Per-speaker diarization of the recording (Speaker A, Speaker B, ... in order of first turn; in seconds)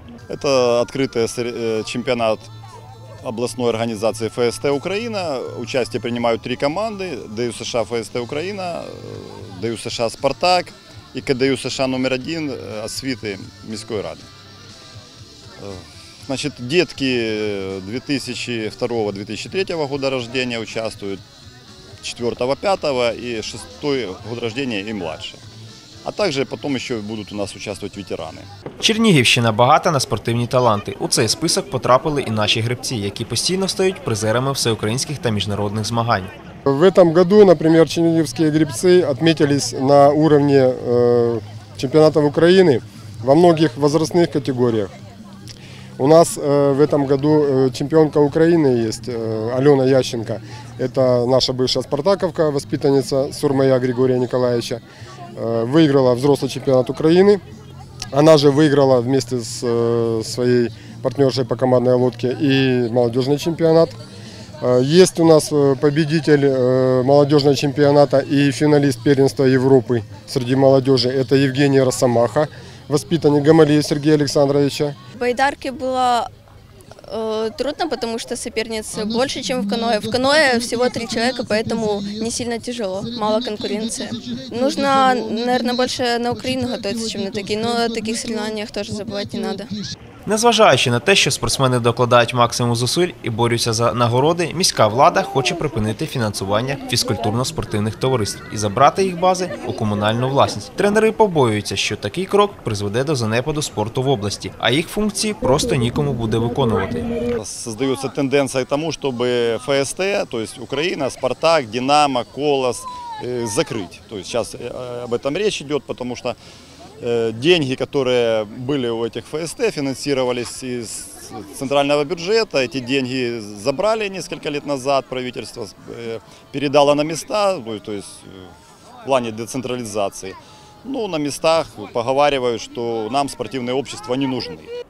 Speaker A: 0.3-2.5, 3.2-14.3, 15.6-21.2, 22.0-25.4, 26.0-28.5, 107.4-116.3, 117.0-128.5, 129.0-134.7
Speaker B: 28.8-36.3, 90.2-107.0
Speaker C: 36.7-44.9, 46.0-54.8, 55.4-57.4, 58.1-63.9, 64.6-75.0
Speaker D: 75.2-76.3, 77.1-89.7